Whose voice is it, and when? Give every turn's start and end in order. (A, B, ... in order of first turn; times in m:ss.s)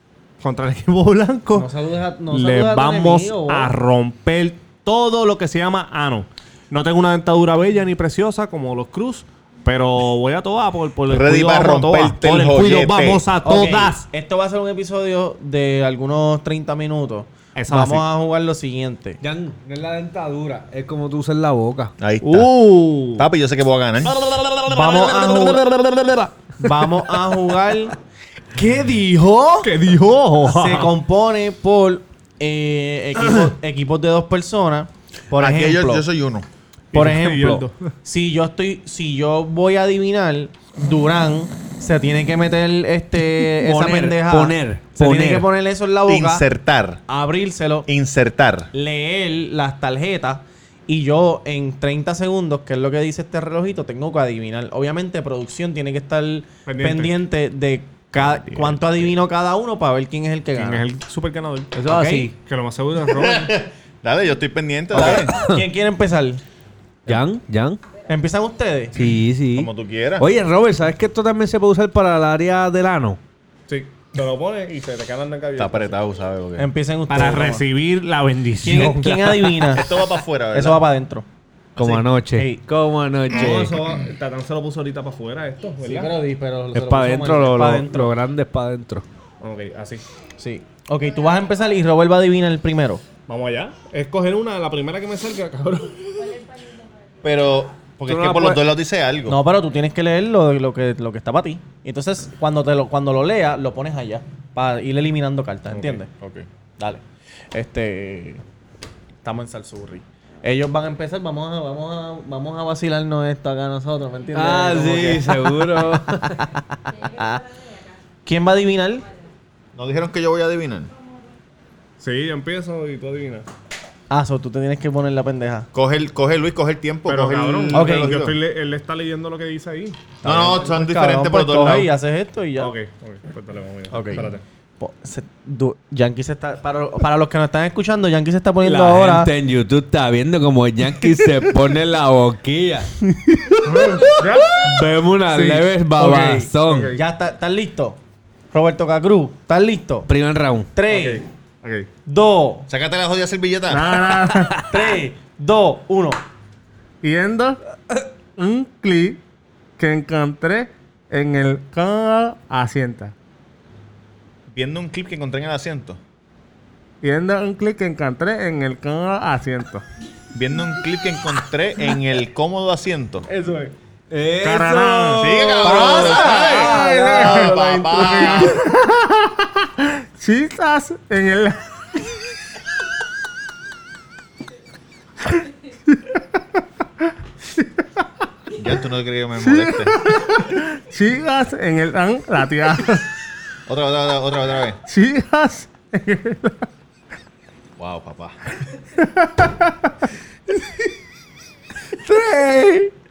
0:00.4-0:01.7 A
0:01.5-0:03.7 B
0:02.3-0:14.0 A
0:11.1-0:13.3 C
0:13.4-0:19.2 B
0:17.6-0:18.0 A
0:19.2-0:21.9 D
0:22.0-0:24.2 C
0:22.2-0:23.3 A
0:24.0-0:26.3 A
0:24.7-0:25.6 B
0:26.6-0:28.0 B
0:28.5-0:29.7 B
0:29.6-0:30.9 A
0:30.4-0:36.0 B
0:35.4-0:36.5 C
0:36.9-0:37.8 A
0:36.9-0:46.4 B
0:43.5-0:45.5 D
0:46.0-0:47.0 C
0:47.1-0:47.9 B
0:47.9-0:48.7 C
0:48.7-1:00.8 B
0:56.7-0:57.2 A
0:58.2-0:59.2 C
1:00.6-1:01.7 A
1:01.8-1:02.3 B
1:01.8-1:02.3 D
1:02.4-1:03.6 A
1:03.0-1:05.4 C
1:04.9-1:06.4 B
1:05.0-1:05.6 D
1:07.1-1:07.8 D
1:08.1-1:09.0 B
1:09.0-1:13.2 D
1:09.5-1:10.3 C
1:13.7-1:16.0 A
1:15.6-1:16.7 C
1:16.6-1:17.7 B
1:17.1-1:19.5 A
1:18.6-1:19.9 B
1:18.8-1:19.4 D
1:19.7-1:20.8 C
1:20.5-1:21.2 B
1:21.8-1:23.8 D
1:21.8-1:22.6 B
1:23.3-1:26.2 A
1:25.9-1:28.2 B
1:26.7-1:29.1 D
1:29.4-1:30.0 A
1:30.4-1:33.0 B
1:33.3-1:36.5 A
1:37.2-1:39.4 C
1:38.1-1:38.6 D
1:39.3-1:46.1 B
1:45.8-1:46.5 C
1:47.5-1:48.4 B
1:49.2-1:55.9 B
1:54.3-1:56.4 D
1:56.5-1:57.4 B
1:58.2-1:59.1 B
1:59.8-2:00.9 C
2:02.0-2:03.5 A
2:04.1-2:05.7 B
2:05.7-2:08.1 C
2:07.1-2:10.0 A
2:07.7-2:08.4 B
2:10.2-2:11.9 C
2:10.2-2:12.7 B
2:12.6-2:14.4 A
2:13.9-2:19.3 B
2:18.6-2:26.9 D
2:23.6-2:24.7 A
2:25.3-2:25.7 A
2:25.4-2:28.0 B
2:26.6-2:27.0 A
2:28.5-2:30.1 B
2:30.1-2:30.7 D
2:30.7-2:31.2 B
2:30.9-2:31.9 A
2:32.1-2:32.7 B
2:32.7-2:34.0 C
2:33.7-2:34.6 A
2:34.3-2:35.0 D
2:34.7-2:36.2 B
2:37.0-2:37.6 A
2:38.4-2:39.2 A
2:39.8-2:43.1 A
2:44.5-2:46.0 C
2:47.0-2:49.8 A
2:50.3-2:53.3 C
2:53.3-2:53.7 B
2:54.1-2:56.8 D
2:54.4-3:01.6 A
2:55.2-2:58.6 C
2:55.6-2:57.6 B
3:05.9-3:06.2 A
3:08.6-3:10.0 C
3:09.4-3:13.1 A
3:13.7-3:14.8 C
3:14.9-3:16.7 A
3:17.8-3:18.4 C
3:19.0-3:19.8 A
3:22.0-3:22.9 D